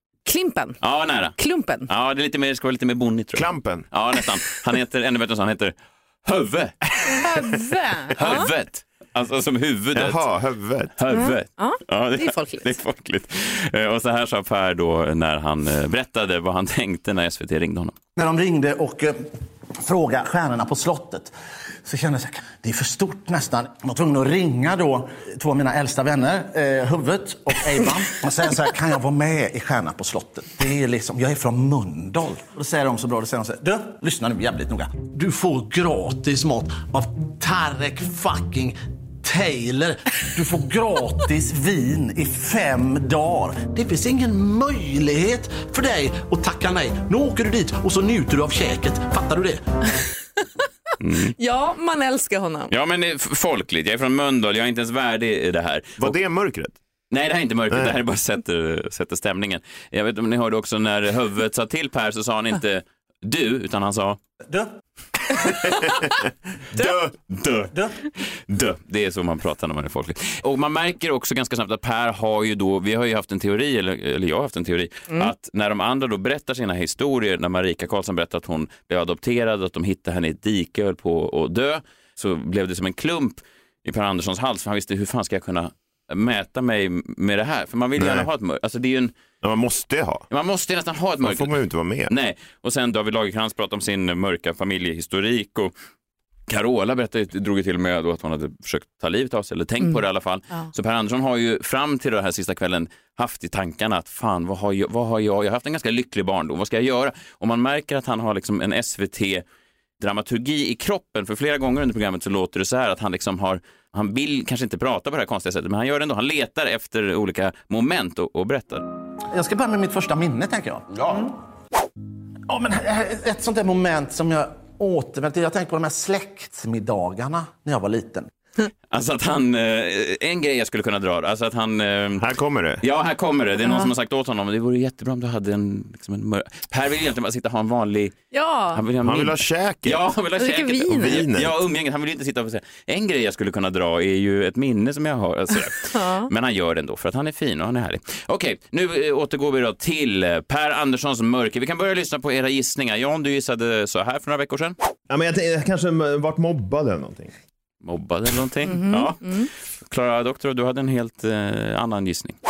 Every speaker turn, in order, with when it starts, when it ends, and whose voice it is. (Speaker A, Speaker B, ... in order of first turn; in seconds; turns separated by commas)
Speaker A: 0.2-0.8, Speaker B: 0.8-6.8, Speaker A: 1.4-1.9, Speaker C: 3.4-3.9, Speaker A: 7.1-8.5, Speaker B: 8.2-10.2, Speaker C: 9.9-10.9, Speaker B: 10.9-17.9, Speaker A: 11.1-12.8, Speaker D: 18.2-21.3, Speaker D: 21.8-49.6, Speaker B: 51.0-51.4, Speaker A: 51.4-52.7, Speaker B: 52.7-56.2, Speaker C: 56.0-56.8, Speaker B: 57.1-64.2, Speaker D: 64.5-64.7, Speaker C: 65.4-66.2, Speaker C: 66.7-67.1, Speaker B: 67.3-89.1, Speaker C: 88.0-88.3, Speaker C: 89.4-90.3, Speaker B: 90.3-91.5, Speaker C: 91.2-92.1, Speaker B: 92.1-95.7, Speaker B: 96.5-109.4, Speaker B: 110.0-118.8, Speaker D: 119.3-121.4, Speaker D: 122.5-128.3, Speaker B: 128.9-132.2, Speaker C: 132.2-132.8, Speaker B: 132.8-138.2, Speaker A: 138.3-138.8, Speaker B: 138.7-154.8, Speaker C: 139.0-140.0, Speaker A: 140.4-141.2, Speaker C: 140.9-141.6, Speaker A: 145.9-146.3, Speaker C: 155.1-157.3, Speaker B: 157.8-162.4, Speaker A: 158.7-159.5